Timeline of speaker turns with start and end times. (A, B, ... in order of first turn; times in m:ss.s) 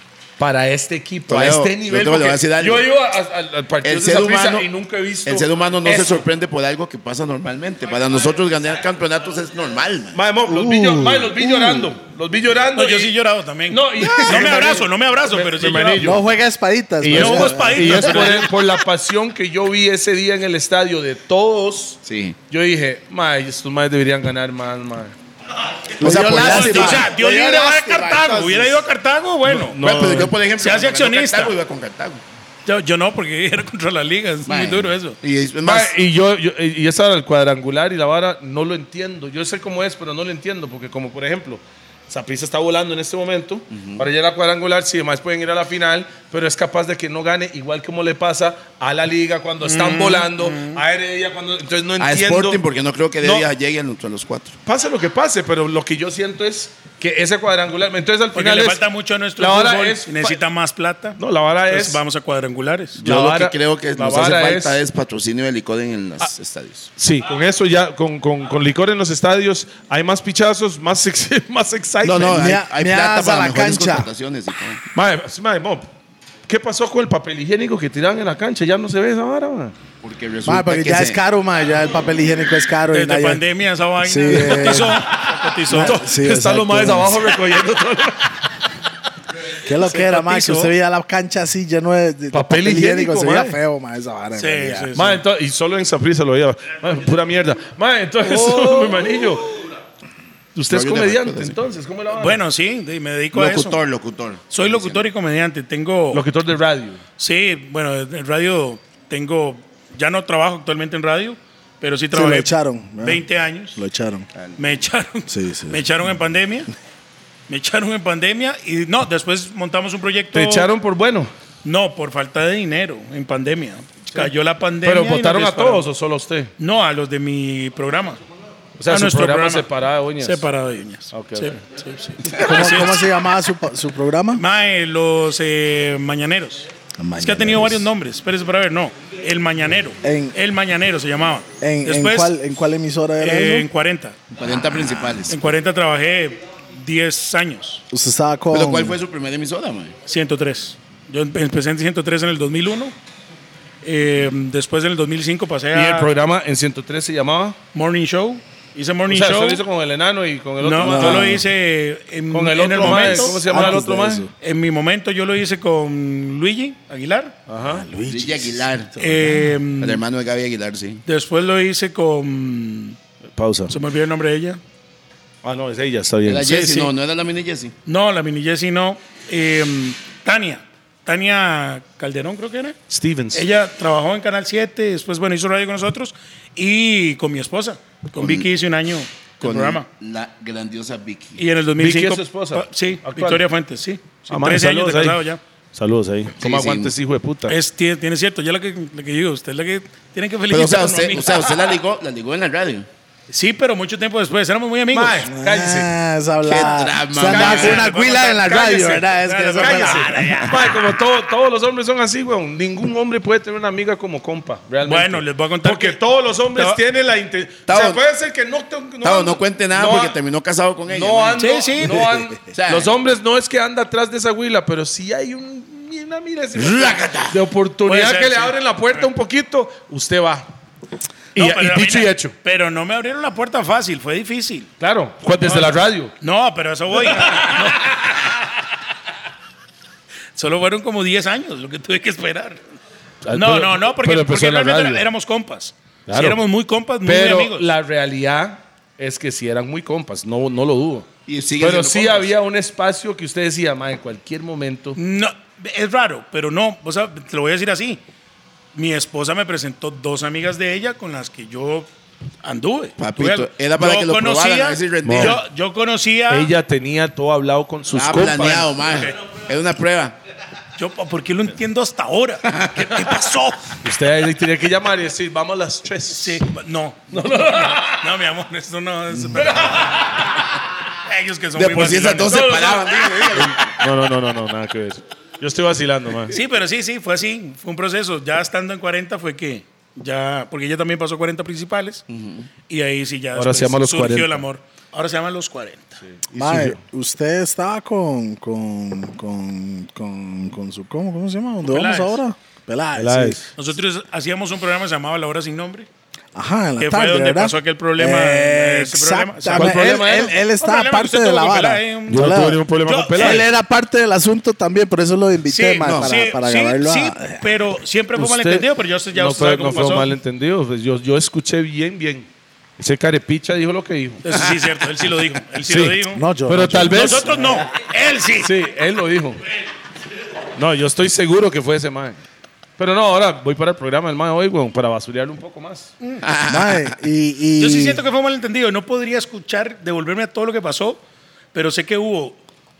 0:00.4-0:06.2 A
0:01.3-0:02.8 B
0:03.8-0:04.7 B
0:05.2-0:10.2 B
0:10.1-0:13.1 A
0:10.4-0:11.9 C
0:12.8-0:16.1 D
0:13.7-0:16.2 A
0:16.0-0:18.3 C
0:17.0-0:25.1 A
0:17.1-0:18.5 D
0:22.0-0:22.4 B
0:26.0-0:28.8 B
0:26.0-0:27.1 C
0:26.1-0:29.8 D
0:29.5-0:30.4 A
0:29.8-0:32.2 B
0:30.6-0:31.5 D
0:32.6-0:35.2 D
0:34.4-0:35.9 B
0:35.6-0:52.6 A
0:43.7-0:44.0 B
0:49.6-0:50.8 D
0:52.0-0:54.6 B
0:53.2-0:53.5 A
0:54.6-0:58.8 A
0:58.3-1:01.2 D
0:59.4-1:00.4 A
1:01.2-1:02.0 A
1:01.7-1:03.0 D
1:03.0-1:04.8 A
1:03.0-1:06.9 B
1:07.0-1:12.5 A
1:12.0-1:14.8 B
1:12.2-1:14.1 C
1:14.9-1:15.9 A
1:16.5-1:19.7 A
1:20.0-1:21.2 B
1:20.4-1:23.4 C
1:22.9-1:26.0 D
1:24.0-1:25.0 C
1:24.3-1:28.5 A
1:25.7-1:27.3 C
1:29.6-1:34.9 C
1:29.8-1:30.7 D
1:32.3-1:33.6 A
1:34.4-1:35.2 D
1:34.9-1:39.6 A
1:38.2-1:39.0 D
1:40.5-1:42.4 A
1:40.7-1:41.6 B
1:42.1-1:43.8 D
1:43.3-1:45.1 B
1:44.5-1:46.2 D
1:46.1-1:47.0 A
1:47.2-1:52.5 D
1:52.1-1:53.2 C
1:53.0-1:53.8 D
1:53.8-1:54.3 C
1:54.3-1:54.6 B
1:54.6-1:56.7 D
1:55.3-1:55.8 C
1:57.5-2:00.7 D
2:00.3-2:01.3 A
2:01.6-2:05.8 D
2:04.1-2:06.5 A
2:06.6-2:08.2 D
2:08.8-2:10.4 A
2:08.9-2:09.7 D
2:10.2-2:13.0 D
2:11.1-2:11.6 A
2:12.4-2:14.4 C
2:14.3-2:16.7 D
2:17.0-2:17.9 C
2:17.2-2:22.3 D
2:20.0-2:20.3 C
2:21.6-2:23.7 C
2:23.2-2:24.2 D
2:24.4-2:25.4 B
2:25.3-2:27.8 D
2:27.9-2:29.0 C
2:28.5-2:29.9 B
2:30.0-2:32.9 D
2:33.8-2:36.1 D
2:35.7-2:37.6 A
2:37.7-2:39.6 D
2:39.1-2:41.4 A
2:40.6-2:43.8 D
2:40.8-2:41.4 C
2:42.3-2:44.3 A
2:42.8-2:44.3 C
2:44.4-2:47.3 D
2:47.5-2:47.9 A
2:47.6-2:49.4 C
2:48.1-2:48.9 B
2:49.0-2:50.0 D
2:49.8-2:51.0 B
2:51.0-2:53.0 D
2:53.3-2:53.7 A
2:53.7-2:54.6 D
2:55.4-2:56.7 A
2:56.2-2:57.7 B
2:56.4-2:56.9 D
2:57.8-3:02.8 D
3:02.9-3:03.4 A
3:03.3-3:09.8 D
3:08.2-3:08.4 B
3:09.4-3:11.4 B
3:11.4-3:15.4 D
3:11.8-3:13.4 A
3:14.3-3:17.6 A
3:16.4-3:16.9 B
3:17.5-3:21.6 D
3:20.5-3:22.9 B
3:23.3-3:25.2 D
3:24.9-3:25.9 A
3:25.3-3:30.4 C
3:26.4-3:27.8 B
3:27.2-3:30.7 D
3:27.3-3:27.9 A
3:29.6-3:40.2 A
3:34.8-3:36.0 D
3:36.5-3:36.8 D
3:37.7-3:38.0 B
3:39.0-3:41.5 B
3:40.8-3:50.5 A
3:41.4-3:42.0 D
3:42.5-3:42.9 B
3:46.5-3:47.4 B
3:47.8-3:49.0 D
3:51.3-3:52.3 A
3:51.3-3:54.7 D
3:54.8-3:56.1 A
3:55.4-3:58.1 D
3:57.2-3:57.8 A
4:00.4-4:02.6 D
4:03.2-4:05.1 A
4:03.3-4:07.7 D
4:06.1-4:06.4 A
4:07.0-4:11.1 A
4:11.3-4:12.3 B
4:11.6-4:15.0 A
4:15.0-4:18.0 D
4:18.7-4:21.9 D
4:22.4-4:26.5 D
4:23.0-4:25.4 B
4:25.0-4:25.4 A
4:26.3-4:28.9 A
4:27.9-4:30.2 B
4:28.8-4:29.2 D
4:30.8-4:33.8 D
4:32.5-4:33.1 B
4:33.8-4:36.4 A
4:36.1-4:40.1 D
4:37.1-4:38.1 A
4:39.3-4:40.2 A
4:41.0-4:42.7 D
4:41.6-4:43.8 B
4:42.2-4:46.4 A
4:46.3-4:52.0 D
4:52.1-4:52.5 B
4:52.7-4:56.0 D
4:53.4-4:54.4 A
4:56.2-4:56.8 A
4:56.3-5:03.4 C
5:01.6-5:02.2 D
5:03.0-5:03.5 A
5:03.6-5:05.9 D
5:06.3-5:12.6 C
5:06.8-5:13.4 D
5:09.5-5:10.4 A
5:12.1-5:13.4 A
5:13.2-5:17.5 C
5:15.5-5:20.1 D
5:15.8-5:16.2 B
5:18.2-5:22.3 A
5:22.8-5:24.4 A
5:24.2-5:26.2 D
5:25.6-5:27.3 A
5:26.1-5:27.6 C
5:26.9-5:28.5 D
5:28.4-5:29.4 A
5:30.5-5:32.2 A
5:32.8-5:35.9 A
5:36.2-5:37.0 B
5:36.4-5:38.0 C
5:37.6-5:41.0 D
5:41.5-5:42.4 D